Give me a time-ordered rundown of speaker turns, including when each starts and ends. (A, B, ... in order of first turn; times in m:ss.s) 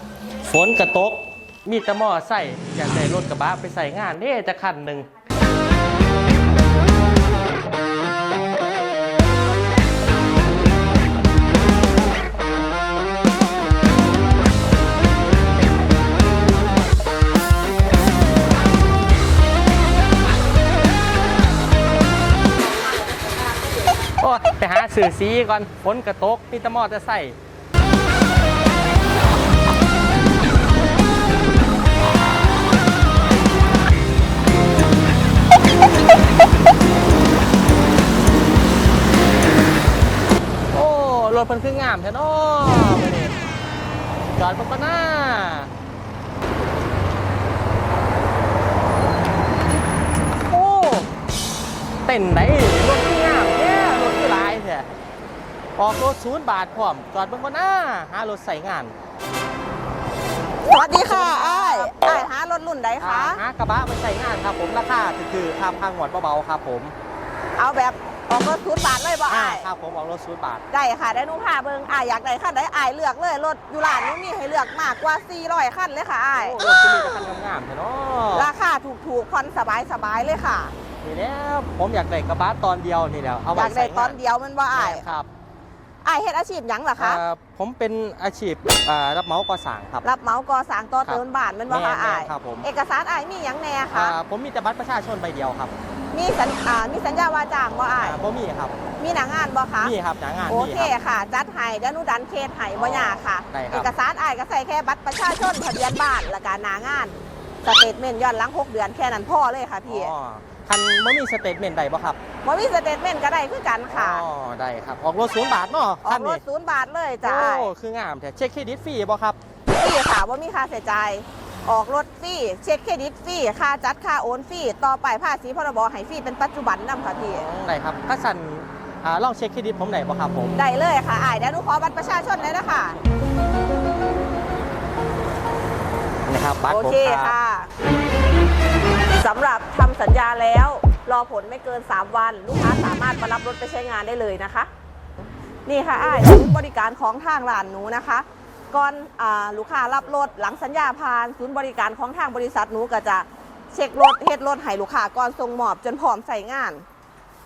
0:00.4-0:05.1 A
0:24.2-0:27.4 A
0:40.7-0:43.4 A
0:44.3-0:45.7 A
0:50.5-0:51.1 A
0:52.0-0:54.9 A
0:55.8-0:59.0 A
1:00.6-1:03.4 B
1:01.0-1:02.0 A
1:03.0-1:06.9 A
1:07.6-1:09.7 B
1:09.3-1:10.6 A
1:10.7-1:17.2 B
1:16.4-1:18.5 A
1:18.3-1:20.8 B
1:21.0-1:24.2 A
1:23.5-1:25.0 B
1:24.7-1:25.3 A
1:26.0-1:27.2 B
1:27.0-1:30.0 A
1:30.0-1:34.2 B
1:31.0-1:32.7 A
1:33.9-1:35.7 A
1:36.1-1:38.2 B
1:37.9-1:38.8 A
1:39.0-1:40.0 B
1:39.8-1:40.9 A
1:40.5-1:50.1 B
1:42.8-1:43.9 A
1:49.8-1:52.2 A
1:52.4-1:54.2 B
1:53.9-1:56.4 A
1:56.0-1:57.7 B
1:57.2-1:59.4 A
1:59.7-2:07.5 B
2:07.1-2:10.6 A
2:10.6-2:13.0 B
2:16.3-2:17.4 A
2:16.7-2:17.7 B
2:19.2-2:24.7 B
2:25.7-2:36.8 B